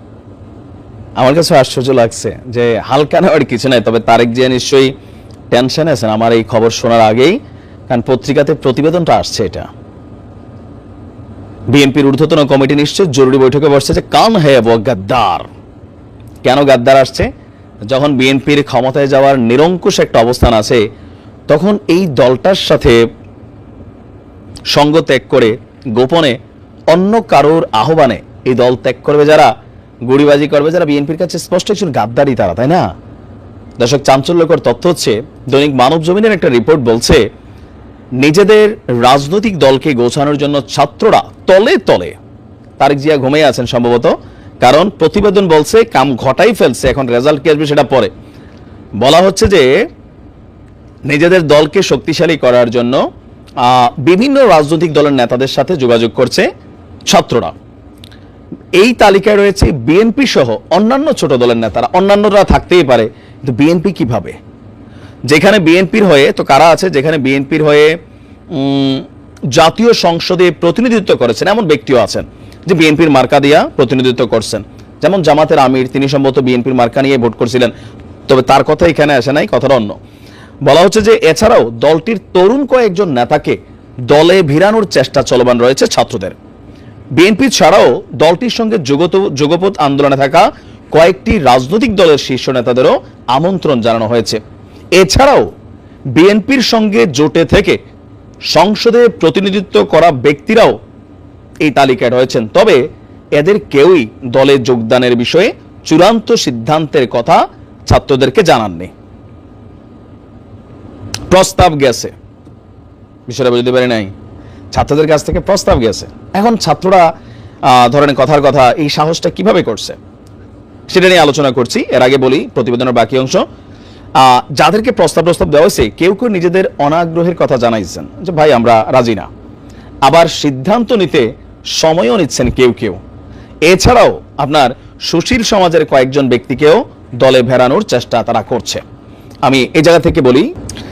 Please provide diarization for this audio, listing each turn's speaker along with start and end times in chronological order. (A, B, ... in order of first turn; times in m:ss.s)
0:01.2-0:04.9 A
0:05.5-0:07.4 A
0:07.9-0:09.7 A
0:11.7-0:15.5 A
0:16.4-0:17.3 A
0:17.9-0:20.8 A
0:21.5-0:23.0 A
0:24.7-0:26.4 A
0:26.9-0:29.5 A
0:30.0-0:32.8 A
0:33.8-0:37.2 A
0:38.2-0:42.2 A
0:42.8-0:48.1 A
0:49.0-0:49.7 A
0:51.1-0:53.0 A
0:53.6-0:56.5 A
0:57.1-0:57.5 A
0:58.8-1:04.4 A
1:05.3-1:08.0 A
1:08.5-1:17.7 A
1:18.3-1:20.0 A
1:20.6-1:23.6 A
1:24.1-1:26.4 A
1:27.1-1:34.4 A
1:34.9-1:35.5 A
1:36.1-1:37.8 A
1:38.5-1:40.8 A
1:41.6-1:48.9 A
1:51.3-1:52.1 A
1:53.3-1:54.1 A
1:54.7-1:57.1 A
1:57.6-2:00.0 A
2:00.9-2:03.4 A
2:04.2-2:09.3 A
2:10.0-2:13.0 A
2:13.6-2:18.8 A
2:19.4-2:20.5 A